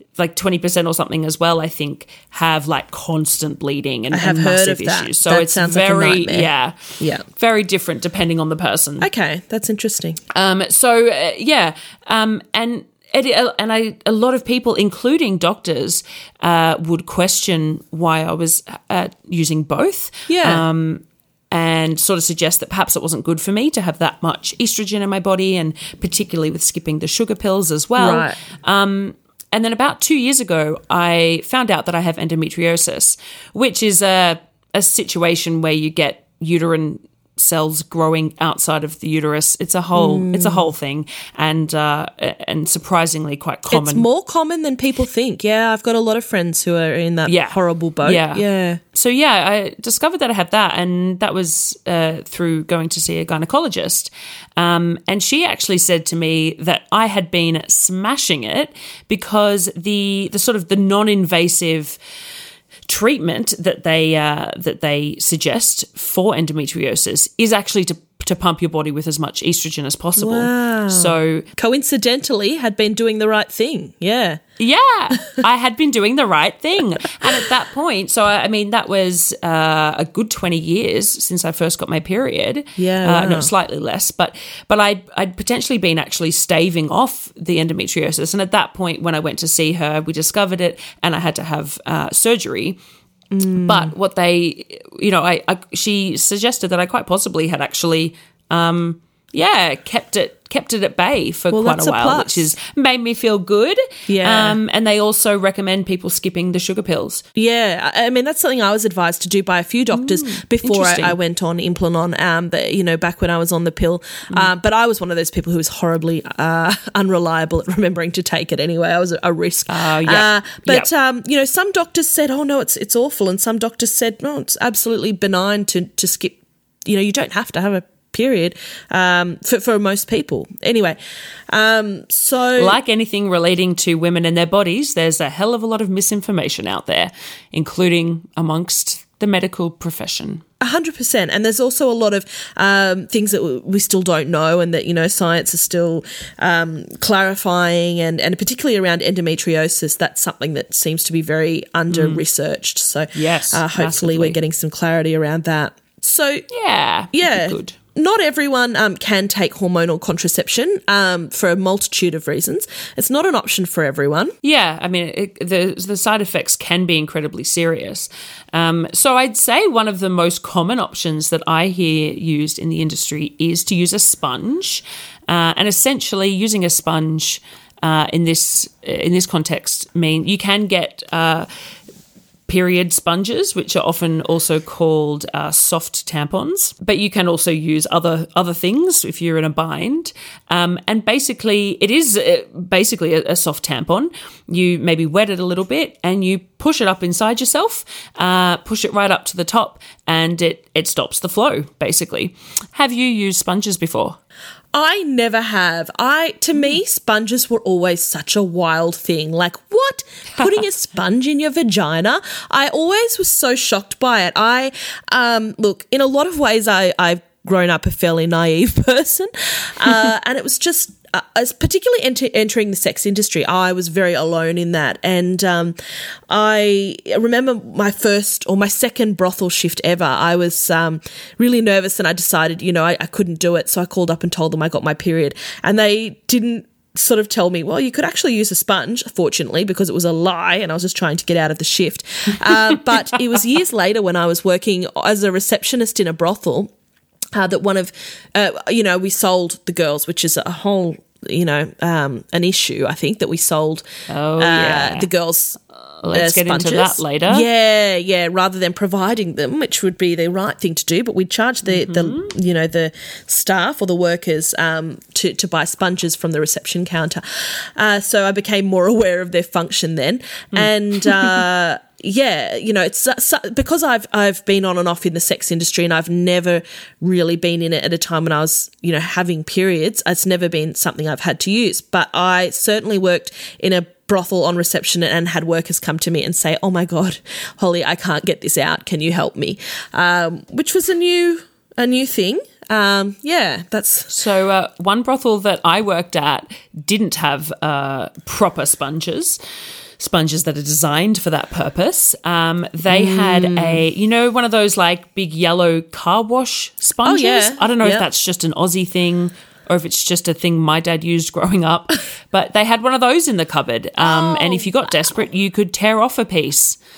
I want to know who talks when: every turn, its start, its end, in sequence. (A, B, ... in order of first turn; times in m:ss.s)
0:00.2-0:09.1 A
0:04.1-0:07.2 B
0:09.0-0:10.2 B
0:10.3-0:44.1 A
0:20.3-0:20.6 B
0:28.0-0:28.4 B
0:40.0-0:40.7 B
0:43.7-0:48.8 B
0:47.3-1:02.0 A
1:02.9-1:11.5 A
1:10.2-1:14.4 B
1:14.6-1:32.8 A
1:22.8-1:23.5 B
1:33.3-1:33.9 B
1:33.6-1:47.2 A
1:41.5-1:42.5 B
1:44.1-1:44.6 B
1:47.4-2:11.0 B
1:49.9-1:51.2 A
1:59.7-2:00.9 A
2:11.5-2:12.8 B
2:12.6-2:20.4 A
2:20.6-2:36.5 B
2:31.9-2:32.2 A
2:33.2-2:34.4 A
2:36.5-2:37.8 A
2:37.1-2:44.3 B
2:44.4-3:01.5 A
3:02.5-3:24.2 A
3:24.7-3:45.8 B
3:46.3-4:06.7 B
4:07.4-4:13.9 B
4:14.1-4:15.1 A
4:14.4-4:54.1 B
4:16.0-4:17.5 A
4:21.7-4:22.4 A
4:30.5-4:31.4 A
4:54.1-4:59.4 A
5:00.0-5:16.8 A
5:02.9-5:03.8 B
5:07.0-5:08.1 B
5:14.0-5:15.2 B